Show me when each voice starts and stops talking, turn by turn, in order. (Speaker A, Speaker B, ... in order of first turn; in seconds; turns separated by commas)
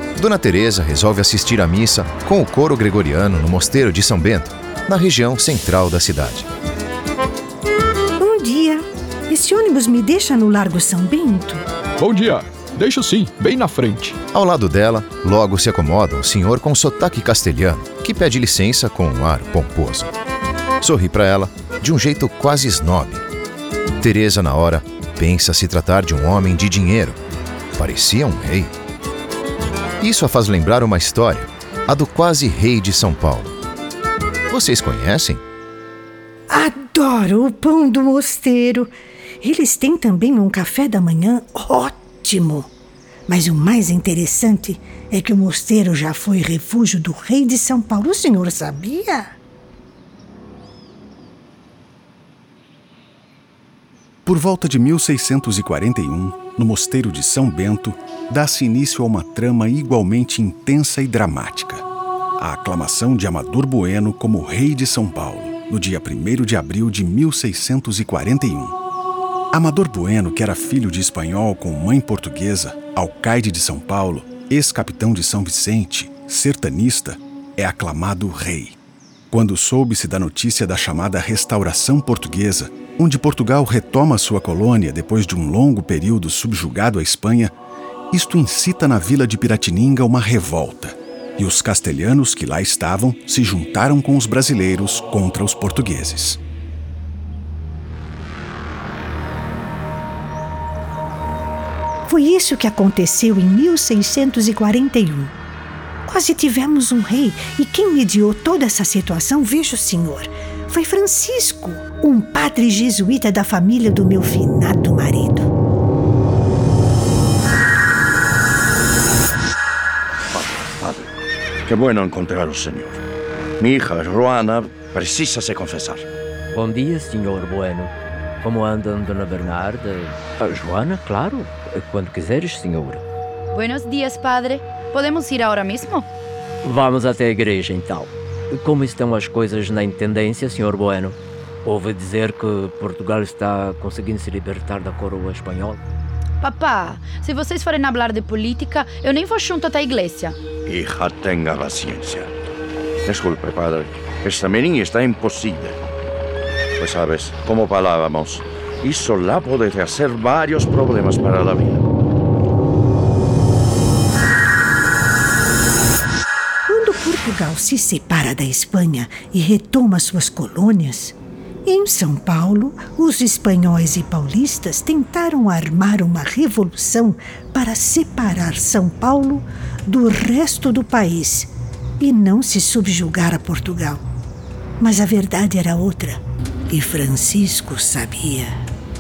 Speaker A: 0.1-6.5, Speaker B: 8.2-11.6, Speaker C: 12.0-14.2, Speaker A: 14.3-20.1, Speaker A: 20.8-23.2, Speaker A: 24.0-27.2, Speaker A: 27.8-28.7, Speaker A: 30.0-33.6, Speaker A: 34.5-35.4, Speaker B: 36.5-42.7, Speaker B: 43.3-49.3, Speaker D: 54.3-61.9, Speaker D: 62.4-68.8, Speaker D: 69.5-78.8, Speaker D: 79.3-87.5, Speaker D: 88.1-96.4, Speaker B: 102.1-105.3, Speaker B: 106.1-115.5, Speaker E: 120.3-123.0, Speaker E: 123.6-126.1, Speaker F: 126.5-133.0, Speaker G: 133.5-136.1, Speaker F: 136.6-145.8, Speaker G: 146.4-150.4, Speaker E: 150.7-152.3, Speaker E: 153.1-155.8, Speaker E: 156.8-161.8, Speaker B: 166.7-184.0, Speaker B: 184.8-188.6